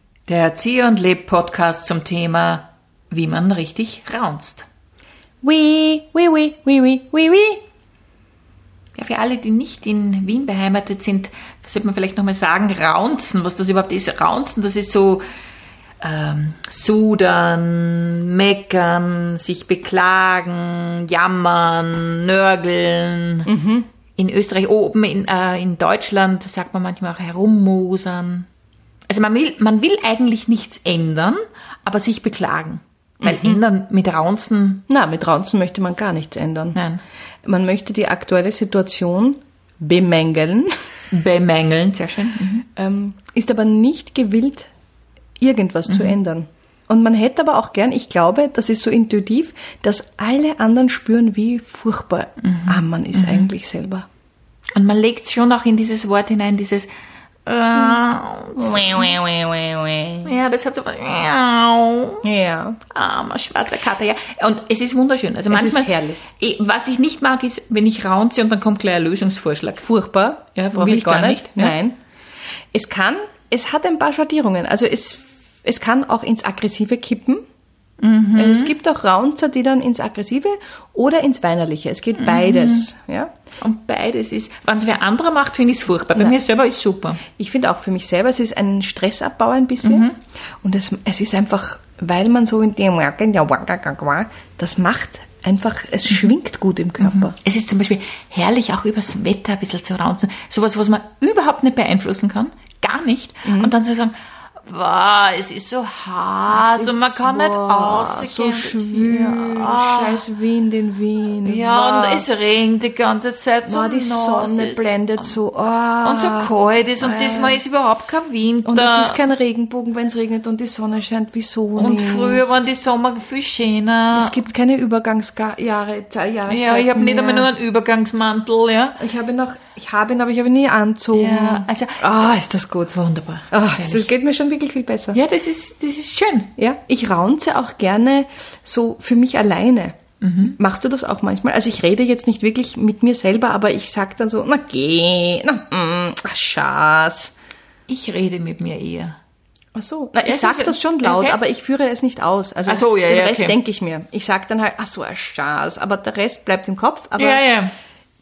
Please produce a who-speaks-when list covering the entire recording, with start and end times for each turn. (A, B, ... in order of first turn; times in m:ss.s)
0:00.3-0:04.7 A
0:05.4-0:07.6 B
0:09.0-0:15.2 A
0:16.0-0:23.5 A
0:23.5-0:23.9 B
0:24.2-0:28.5 A
0:29.1-0:34.8 A
0:33.2-0:33.6 B
0:34.9-0:36.8 B
0:36.8-0:37.0 A
0:37.5-0:41.0 B
0:41.1-0:42.7 A
0:42.8-0:44.7 B
0:45.4-0:54.1 B
0:45.9-0:46.2 A
0:52.4-0:53.5 A
0:54.8-0:56.9 A
0:57.5-0:59.2 A
0:58.6-1:00.3 B
1:00.2-1:02.2 A
1:02.2-1:02.8 B
1:02.9-1:09.8 A
1:05.5-1:06.2 B
1:09.8-1:12.0 B
1:10.6-1:11.8 A
1:12.7-1:17.4 B
1:18.0-1:18.7 A
1:18.4-1:23.3 B
1:22.2-1:22.9 A
1:23.6-1:27.2 A
1:27.3-1:30.1 B
1:29.8-1:30.1 A
1:30.6-1:37.4 B
1:37.0-1:50.2 A
1:43.4-1:43.7 B
1:46.5-1:52.3 B
1:51.4-1:55.4 A
1:53.7-1:57.6 B
1:56.0-1:59.2 A
1:58.7-2:02.4 B
2:01.8-2:04.4 A
2:04.1-2:07.5 B
2:06.5-2:09.0 A
2:09.0-2:13.0 B
2:11.1-2:12.1 A
2:12.9-2:14.1 A
2:13.5-2:15.2 B
2:15.1-2:16.5 A
2:16.6-2:27.3 B
2:20.2-2:20.6 A
2:27.9-2:29.2 A
2:29.8-2:37.5 B
2:30.2-2:31.4 A
2:32.7-2:33.6 A
2:37.2-2:37.7 A